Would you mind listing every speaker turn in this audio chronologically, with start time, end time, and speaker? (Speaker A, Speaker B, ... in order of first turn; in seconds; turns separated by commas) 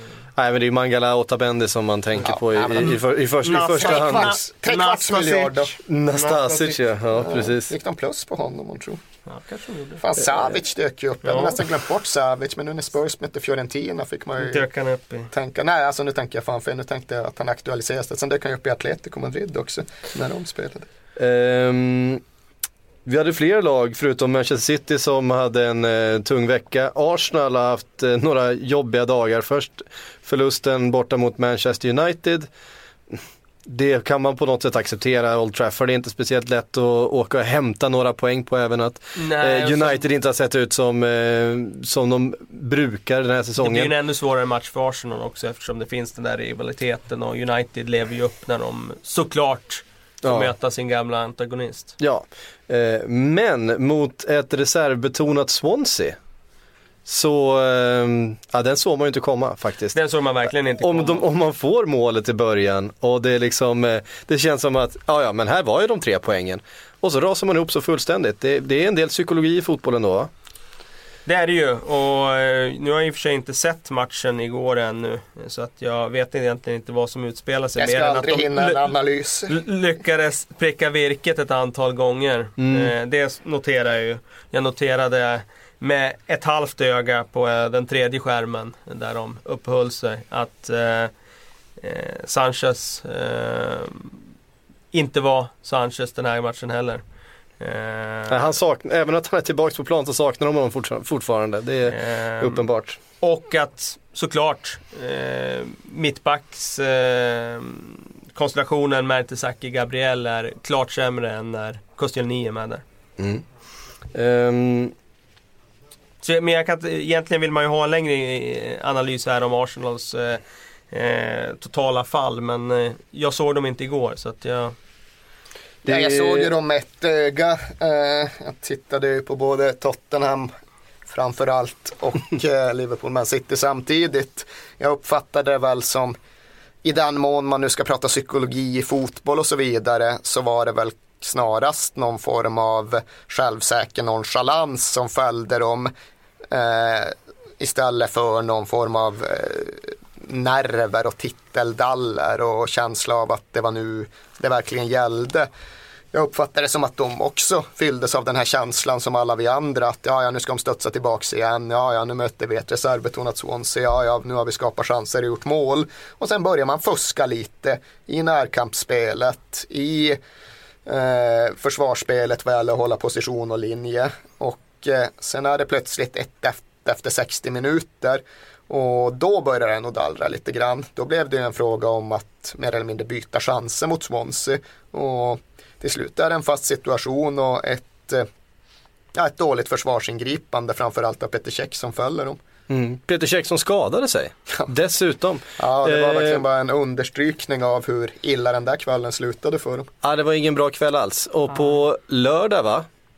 Speaker A: 0.3-4.3, Speaker B: 2.3-2.9, Speaker C: 2.8-6.8, Speaker B: 3.5-5.8, Speaker A: 5.9-7.7, Speaker B: 7.2-9.0, Speaker C: 9.3-10.5, Speaker B: 10.0-14.7, Speaker C: 11.2-11.6, Speaker C: 14.4-15.3, Speaker B: 15.3-20.9, Speaker A: 21.2-22.2, Speaker A: 23.1-32.5, Speaker A: 33.1-43.9, Speaker C: 39.2-40.0, Speaker C: 43.6-51.9, Speaker A: 50.2-50.5, Speaker A: 52.0-56.2, Speaker A: 57.1-60.0, Speaker C: 60.0-61.3, Speaker A: 60.8-70.3, Speaker C: 71.3-78.8, Speaker B: 77.8-79.5, Speaker C: 79.5-91.1, Speaker A: 82.6-82.9, Speaker C: 91.8-94.1, Speaker C: 94.9-97.0, Speaker C: 97.6-98.4, Speaker A: 98.3-103.0, Speaker C: 101.9-102.6, Speaker C: 103.2-112.8, Speaker A: 113.2-113.4, Speaker A: 114.1-114.9, Speaker C: 116.2-124.8, Speaker A: 125.8-126.5, Speaker B: 125.9-130.5, Speaker B: 131.1-136.2, Speaker B: 136.8-145.9, Speaker B: 146.5-155.5, Speaker B: 156.1-170.2, Speaker B: 170.9-188.3, Speaker B: 189.2-192.4, Speaker A: 192.7-196.4, Speaker B: 195.6-199.9, Speaker A: 200.0-202.9